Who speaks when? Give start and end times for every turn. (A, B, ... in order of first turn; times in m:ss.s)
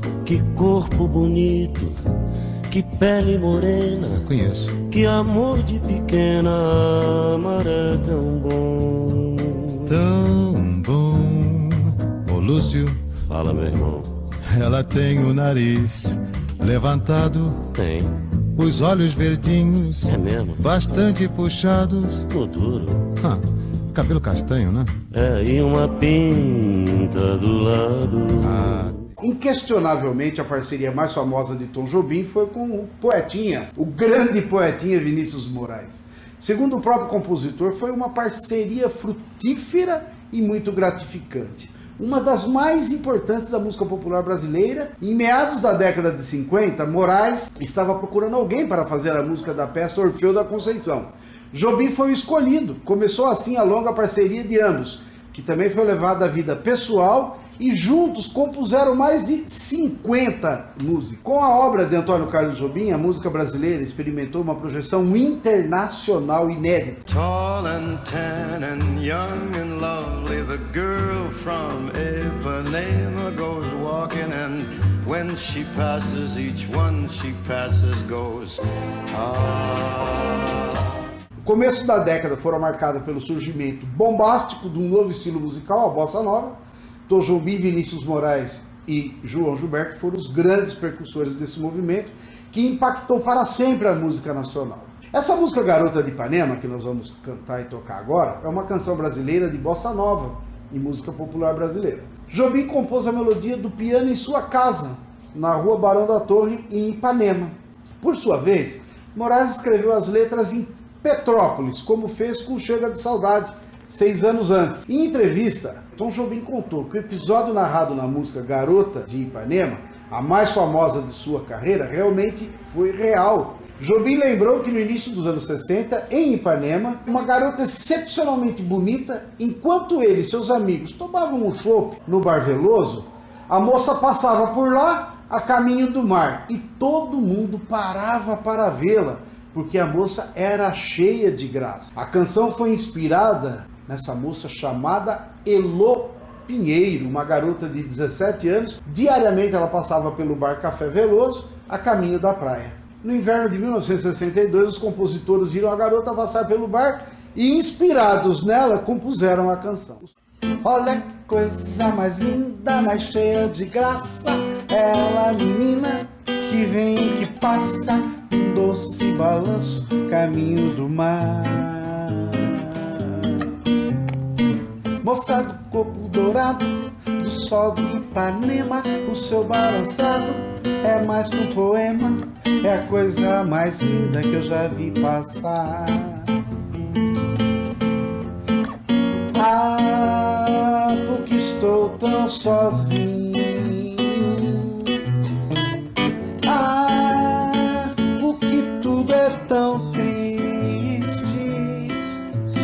0:00.2-0:02.0 A
0:02.7-0:04.2 A
0:04.2-0:04.8 B
0:04.8-0:10.0 A
0:09.9-0:13.0 B
0:13.3-0:14.1 A
0:14.4-0:17.7 B
0:17.8-0:18.2 A
0:18.6-0:22.3 B
0:20.1-0:20.6 A
0:22.3-0:23.1 A
0:23.2-0:25.0 B
0:25.1-0:28.9 A
0:28.4-0:29.0 B
0:29.2-1:07.0 C
1:07.1-1:20.8 D
1:21.4-2:53.5 C
2:55.0-3:06.4 C
3:09.3-3:15.1 C
3:16.4-3:22.0 C